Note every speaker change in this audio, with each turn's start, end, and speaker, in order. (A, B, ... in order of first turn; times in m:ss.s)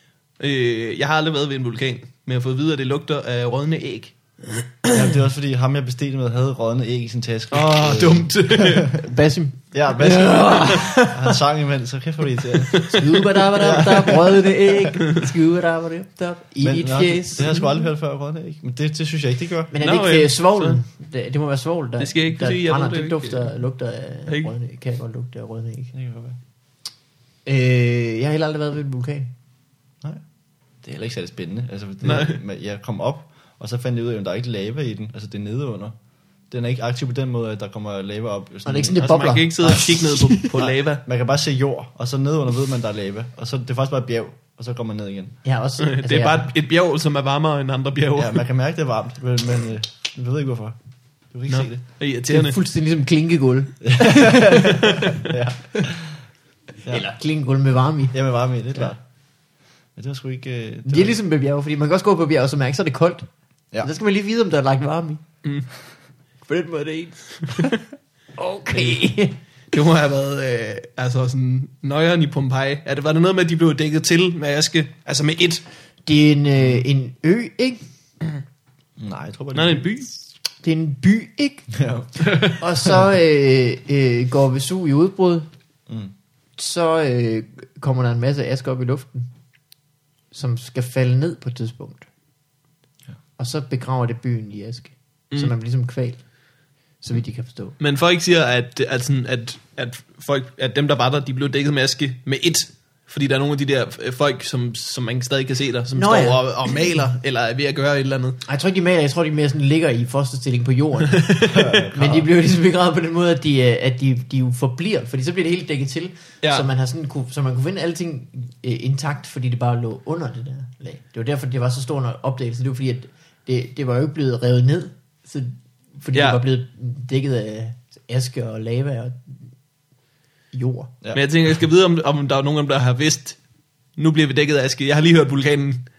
0:00.4-0:04.1 A
0:04.9-0:08.9 B
0:07.5-0:09.0 A
0:09.0-0:11.4 C
0:09.7-0:12.9 B
0:12.7-0:13.2 A
0:12.9-0:17.6 C
0:13.5-0:14.9 B
0:16.6-0:19.7 B
0:19.7-0:25.9 C
0:19.8-0:20.8 A
0:22.0-0:23.5 A
0:24.3-0:24.5 A
0:25.9-0:26.4 B
0:27.4-0:29.3 C
0:30.8-0:36.0 B
0:32.0-0:32.4 A
0:36.5-0:39.1 B
0:38.6-0:40.5 C
0:38.9-0:41.0 A
0:40.5-0:45.4 B
0:45.4-0:46.5 C
0:45.8-0:48.4 A
0:48.2-0:50.8 B
0:51.3-0:51.8 B
0:51.5-0:52.6 A
0:52.3-0:55.2 C
0:53.8-0:56.2 B
0:56.8-0:58.1 C
0:58.1-0:59.0 B
1:00.0-1:01.2 B
1:00.9-1:03.3 C
1:03.8-1:05.2 C
1:06.4-1:07.7 C
1:08.4-1:09.4 C
1:09.7-1:15.6 A
1:16.0-1:17.8 C
1:19.0-1:19.9 B
1:19.5-1:20.1 A
1:20.6-1:21.7 C
1:21.7-1:22.2 B
1:22.2-1:22.6 A
1:22.6-1:25.5 C
1:26.6-1:29.3 C
1:30.3-1:32.0 C
1:33.4-1:36.2 C
1:37.0-1:37.8 C
1:37.8-1:48.4 A
1:45.9-1:47.0 C
1:48.4-2:09.3 C
1:51.1-1:51.6 A
1:51.5-1:52.2 B
2:06.1-2:06.4 A
2:10.5-2:10.9 C
2:11.1-2:13.4 A
2:14.0-2:15.8 A